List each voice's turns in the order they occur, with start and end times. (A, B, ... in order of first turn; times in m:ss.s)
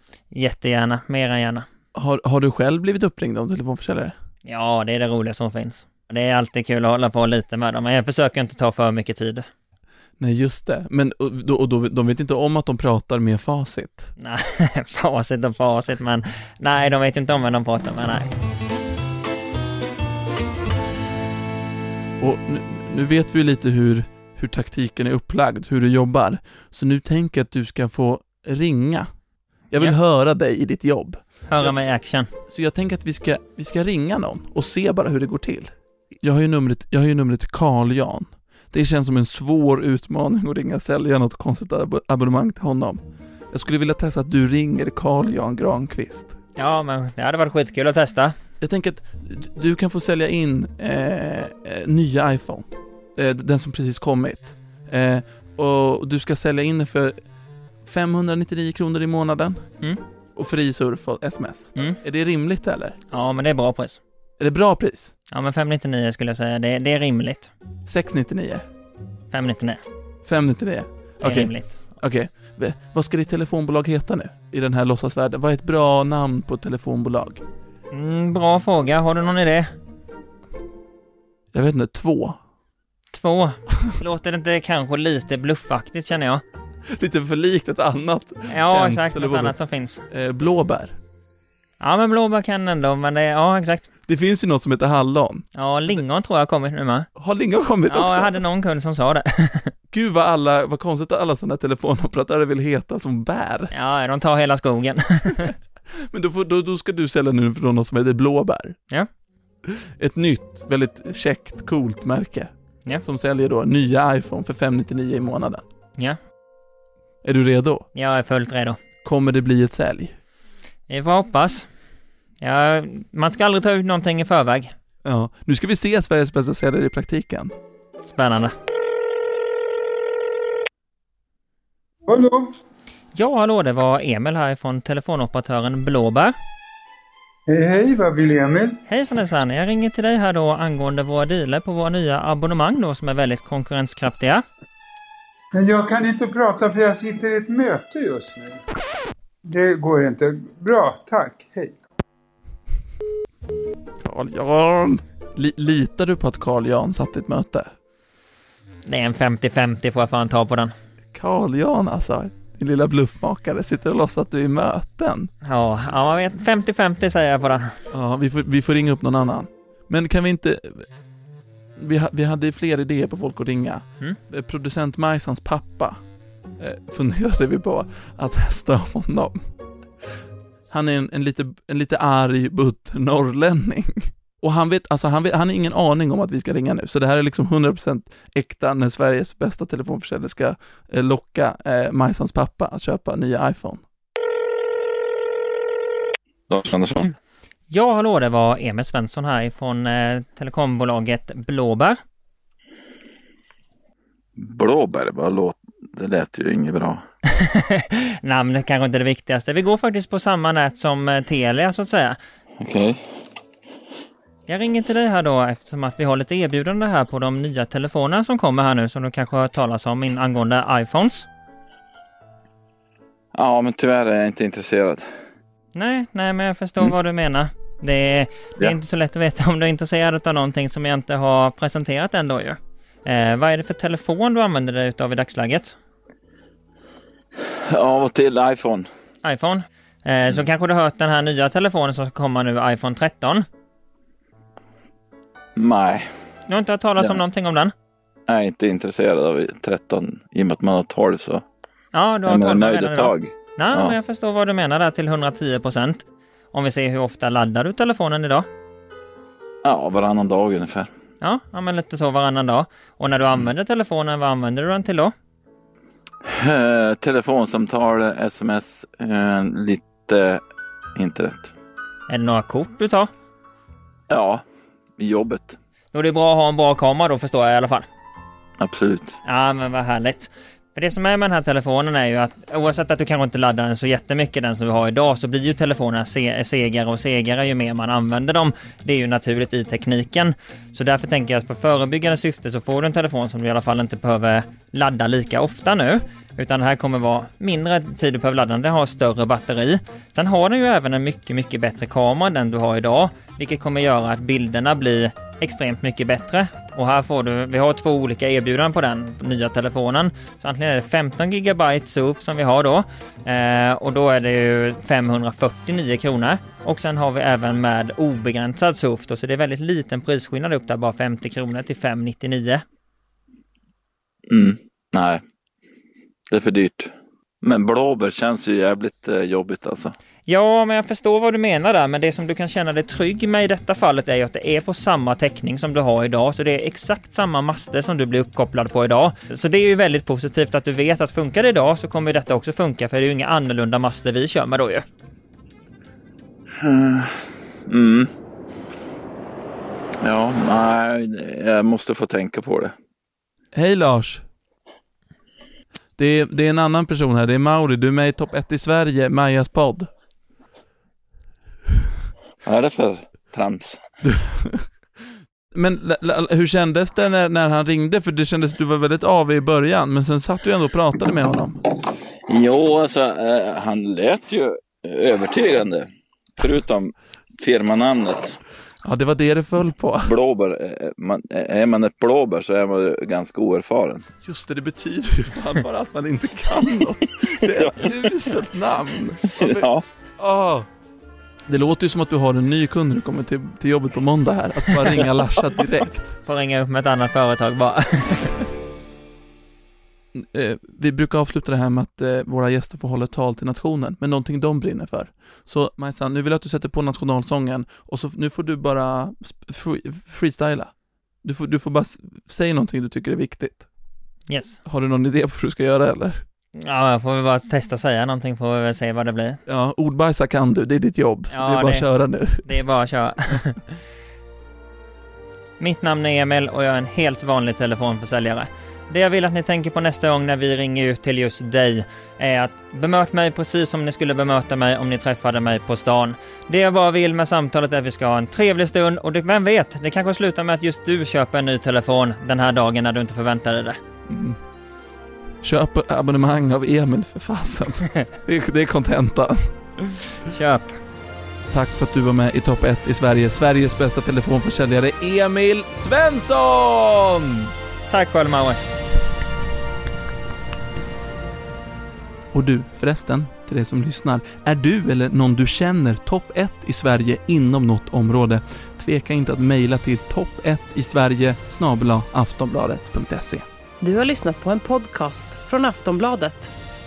0:00.3-0:01.6 A
0:01.9-0:04.1 B
0:04.4-0:09.4 A
0:10.2-0:14.1 B
0:14.2-0:18.3 A
0:22.2-0:29.1 B
0:29.7-0:31.8 B
0:31.5-0:32.3 A
0:32.5-0:46.4 B
0:46.6-0:48.3 A
0:48.6-0:57.2 B
0:57.8-0:59.7 B
1:00.3-1:03.0 B
1:03.1-1:04.0 A
1:04.4-1:05.1 B
1:05.3-1:07.5 A
1:07.8-1:08.6 B
1:09.3-1:09.8 A
1:10.2-1:17.4 B
1:11.2-1:11.8 A
1:17.9-1:19.7 A
1:21.5-1:22.4 B
1:23.1-1:26.4 A
1:26.9-1:29.6 B
1:28.5-1:30.0 A
1:30.1-1:31.0 B
1:31.8-1:33.9 A
1:34.1-1:36.0 B
1:35.5-1:37.1 A
1:37.2-1:38.4 B
1:37.9-1:39.7 A
1:39.9-1:43.7 B
1:43.7-1:45.5 A
1:45.4-1:48.8 B
1:49.7-1:55.6 B
1:57.2-1:57.9 B
1:57.9-1:58.8 A
1:59.0-2:00.2 B
2:00.9-2:01.6 A
2:02.4-2:04.7 A
2:05.0-2:07.5 B
2:08.0-2:08.5 A
2:12.1-2:12.5 C
2:13.1-2:16.3 A
2:17.5-2:18.8 C
2:18.9-2:24.4 A
2:25.5-2:28.6 C
2:29.4-2:31.8 C
2:34.0-2:37.7 B
2:38.8-2:40.7 A
2:41.1-2:45.3 B
2:45.4-2:47.8 A
2:47.9-2:50.9 B
2:51.8-2:56.0 B
2:56.6-2:59.5 B
3:00.7-3:13.8 B
3:16.5-3:17.1 D
3:17.7-3:22.0 A
3:24.4-3:27.0 D
3:27.3-3:32.2 A
3:32.6-3:33.0 D
3:34.5-3:41.3 A
3:43.3-3:45.2 D
3:45.8-3:55.8 A
3:57.4-3:58.9 D
3:59.2-4:03.4 A
4:05.6-4:06.1 D
4:06.5-4:07.7 A
4:08.3-4:11.4 D
4:11.9-4:18.5 A
4:12.2-4:14.0 D
4:19.6-4:20.9 D
4:21.2-4:25.1 A
4:26.2-4:30.4 D
4:31.0-4:31.5 D
4:32.1-4:33.1 A
4:34.1-4:34.4 D
4:35.0-4:35.6 D
4:35.9-4:37.8 A
4:38.6-4:39.2 D
4:39.2-5:22.6 A
5:24.3-5:25.2 D
5:26.3-5:29.9 D
5:30.3-5:44.8 A
5:46.6-5:48.1 D
5:50.0-5:52.7 D
5:53.5-5:54.2 B
5:56.0-5:59.9 B
6:02.4-6:03.8 D
6:04.1-6:04.6 B
6:05.5-6:11.6 B
6:12.3-6:18.4 D
6:18.8-6:20.1 B
6:20.0-6:24.0 D
6:24.2-6:30.7 B
6:27.6-6:27.9 D
6:29.3-6:29.8 D
6:31.5-6:36.1 B
6:36.2-6:38.4 A
6:40.1-6:50.7 B
6:51.2-6:53.7 B
6:54.3-6:54.6 A
6:54.6-6:56.2 B
6:56.6-6:59.4 A
6:59.5-7:02.4 B
7:01.3-7:01.8 A
7:02.4-7:03.6 A
7:05.6-7:23.8 A
7:24.1-7:24.4 B
7:25.4-7:29.5 B
7:30.2-7:30.8 A
7:31.5-7:37.5 B
7:37.9-7:38.6 A
7:42.3-7:53.4 B
7:53.8-7:56.5 E